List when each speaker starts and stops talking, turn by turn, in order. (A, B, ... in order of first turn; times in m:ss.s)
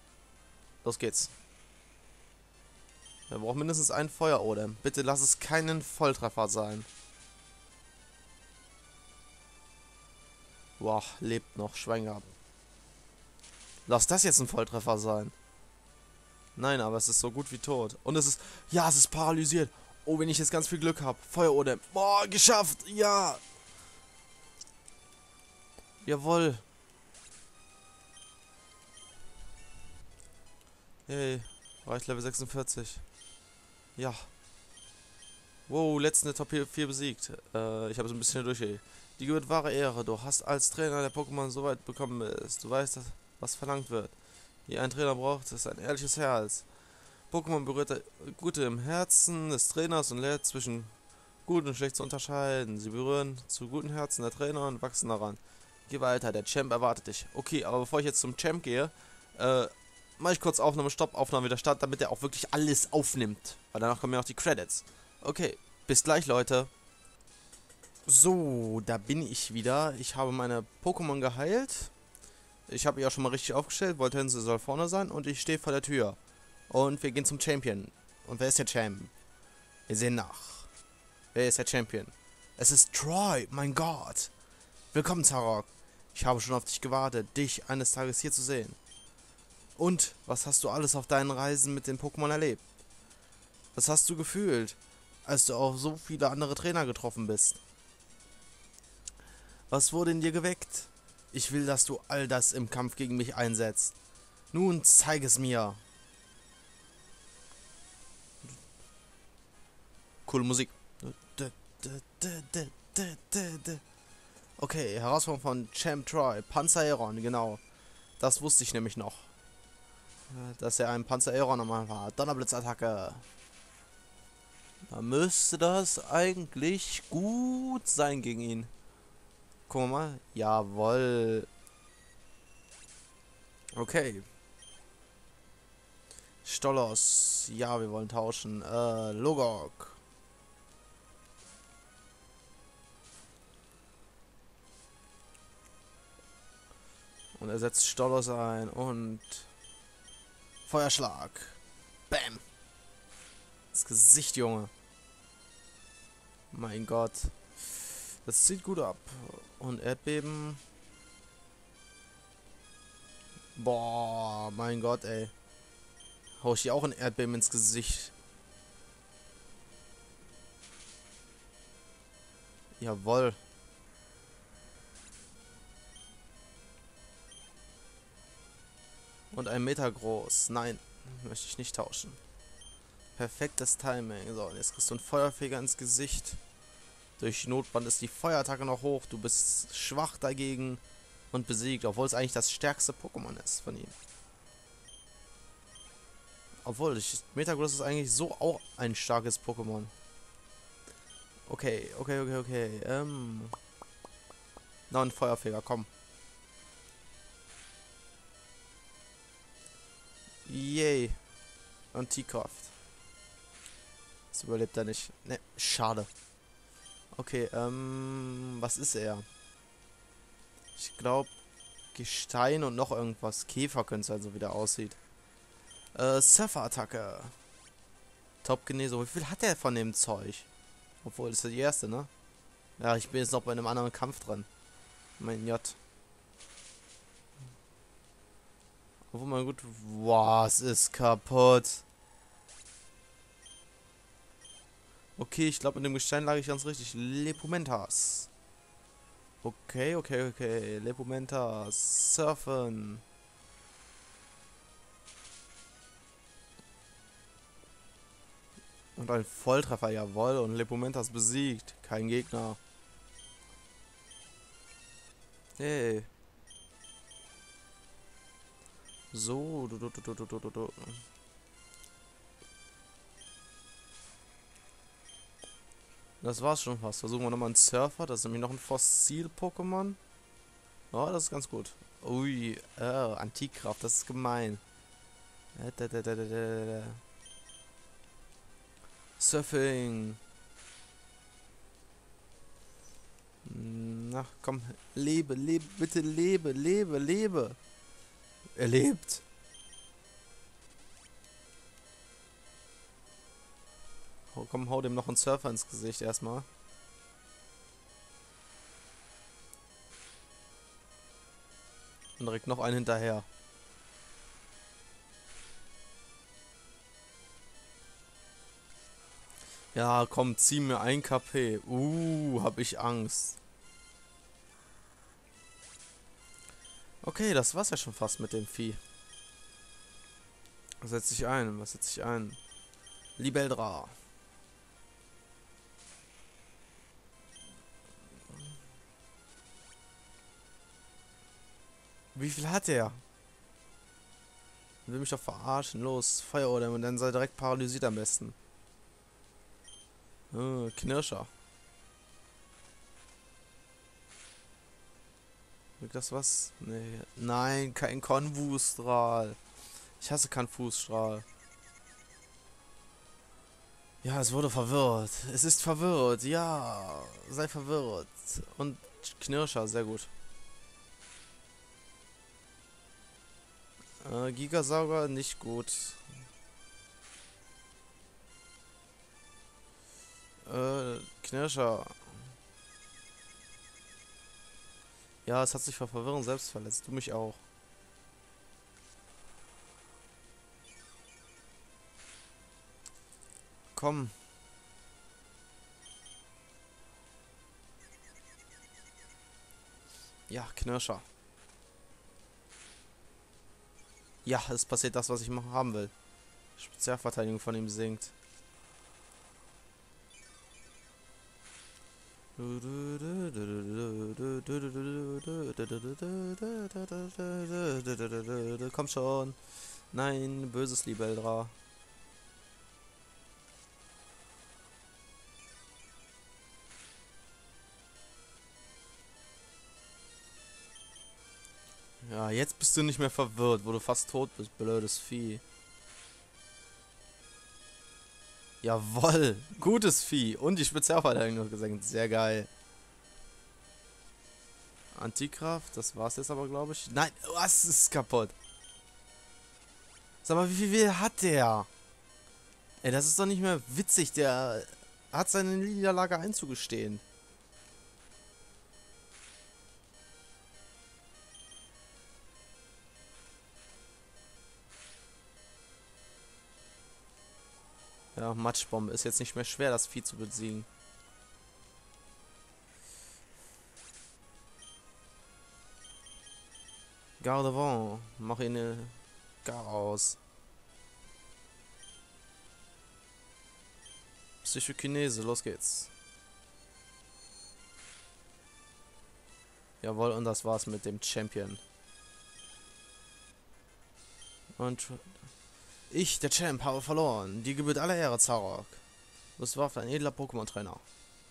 0:00.8-0:01.3 A
0:03.3-0:06.9 A
0:10.8-0:12.3 A
0:13.8-0:15.3 A
0:16.6-0:23.4 A
0:26.0-0:26.6 A
0:31.1-0:33.0 A
0:34.0-0:34.3 A
0:35.7-0:46.7 A
0:47.3-1:06.7 A
1:08.0-1:11.9 A
1:12.7-1:16.2 A
1:16.7-1:19.1 A
1:19.9-1:20.7 A
1:21.3-1:24.3 A
1:24.9-1:28.8 A
1:29.8-1:32.6 A
1:33.7-1:37.6 A
1:39.7-1:43.9 A
1:44.5-1:45.8 A
1:50.2-1:53.8 A
1:54.6-1:57.6 A
1:58.2-1:59.3 A
2:00.3-2:03.2 A
2:04.9-2:08.7 A
2:09.7-2:11.5 A
2:13.7-2:14.3 A
2:16.4-2:20.0 A
2:27.4-2:29.5 A
2:30.6-2:31.6 A
2:32.1-2:32.4 A
2:33.7-2:34.7 A
2:36.5-2:40.6 A
2:43.5-2:45.3 A
2:46.4-2:48.1 A
2:52.8-2:53.4 A
2:59.3-3:02.2 A
3:03.2-3:06.4 A
3:07.2-3:13.9 A
3:16.6-3:19.9 A
3:21.4-3:23.6 A
3:24.9-3:25.9 A
3:30.4-3:31.2 A
3:31.9-3:32.7 A
3:34.3-3:36.1 A
3:37.1-3:39.2 A
3:40.8-3:41.3 A
3:41.9-3:45.0 A
3:45.9-3:47.3 A
3:48.4-3:50.5 A
3:51.0-3:52.1 A
3:52.8-3:54.5 A
3:55.2-3:55.8 A
3:59.1-4:01.8 A
4:05.2-4:08.3 A
4:09.4-4:13.0 A
4:19.0-4:22.6 A
4:25.6-4:26.1 A
4:29.1-4:31.0 A
4:36.2-4:40.0 A
4:40.9-4:44.6 A
4:45.5-4:47.0 A
4:49.2-4:50.2 A
4:53.4-4:57.6 A
4:58.6-4:59.2 A
5:04.3-5:06.5 A
5:12.2-5:13.3 A
5:19.7-5:23.4 A
5:27.0-5:28.8 A
5:30.8-5:32.4 A
5:33.2-5:34.0 A
5:42.1-5:43.0 A
5:44.8-5:48.4 A
5:50.3-5:51.3 A
5:55.8-5:59.4 A
6:00.0-6:01.2 A
6:04.0-6:10.1 A
6:14.0-6:16.0 A
6:20.4-6:22.1 A
6:25.2-6:27.4 A
6:33.7-6:34.1 A
6:40.3-6:41.0 A
6:44.2-6:45.9 A
6:46.6-6:48.1 A
6:52.4-7:01.5 A
7:12.0-7:15.4 A
7:18.6-7:22.5 A
7:24.9-7:28.3 A
7:30.2-7:31.7 A
7:32.8-7:37.0 A
7:48.1-7:50.7 A
7:57.2-8:00.2 A
8:04.4-8:05.9 A
8:09.8-8:11.6 A
8:14.6-8:15.2 A
8:15.9-8:18.8 A
8:19.4-8:20.8 A